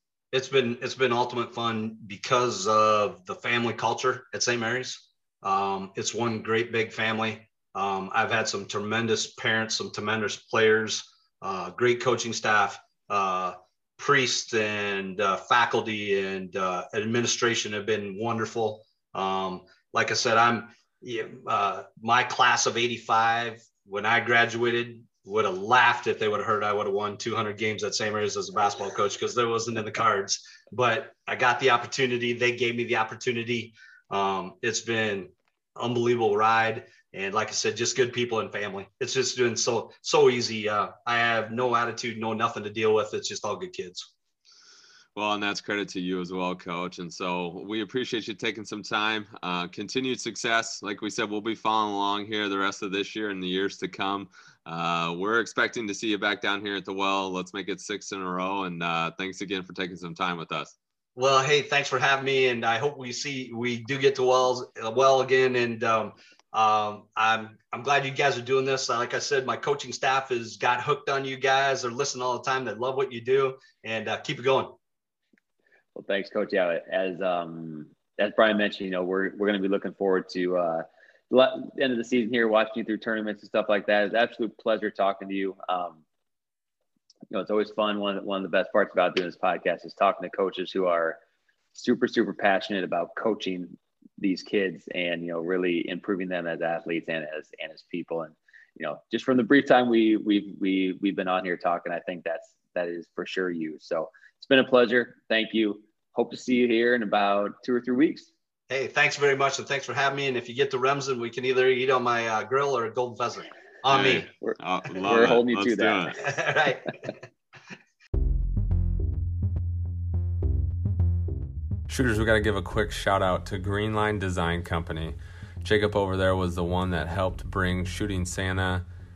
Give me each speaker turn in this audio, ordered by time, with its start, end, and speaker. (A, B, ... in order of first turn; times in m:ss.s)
0:00.3-0:44.1 A
0:45.2-1:00.7 B
1:01.2-1:14.8 A
1:16.0-1:26.0 C
1:27.3-1:31.2 C
1:31.7-1:48.3 C
1:48.7-1:54.3 A
1:53.9-1:56.3 B
1:54.4-1:56.0 C
1:56.2-1:56.9 A
2:01.9-2:08.8 B